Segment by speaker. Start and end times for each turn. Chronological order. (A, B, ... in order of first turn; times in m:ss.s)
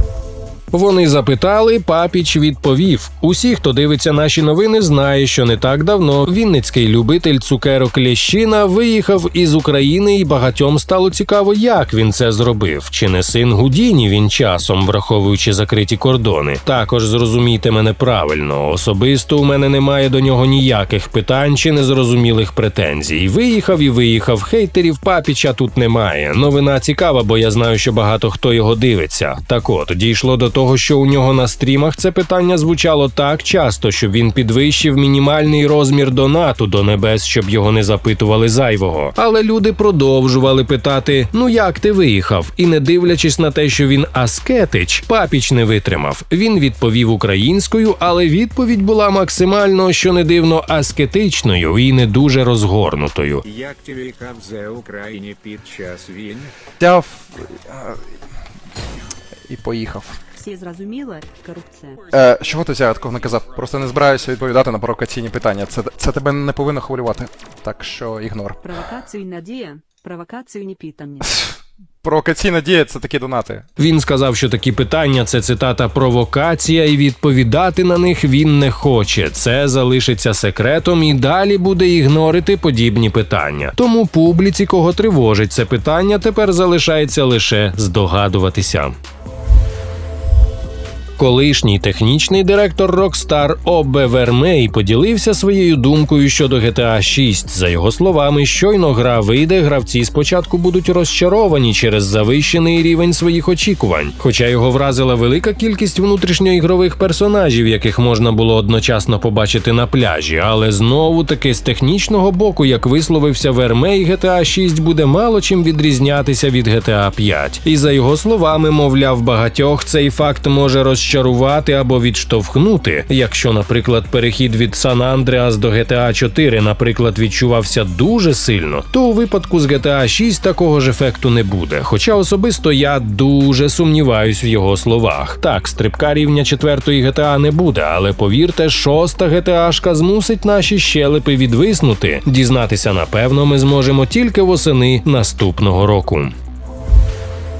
0:00.7-0:53.4 A
0:53.4-0:56.5 B
0:56.8-0:58.0 C
0:59.5-1:00.2 C
1:00.4-1:02.0 D
1:02.1-1:08.6 C
1:08.6-1:11.4 D
1:12.0-1:13.6 C
1:13.8-1:28.9 A
1:31.2-2:26.3 A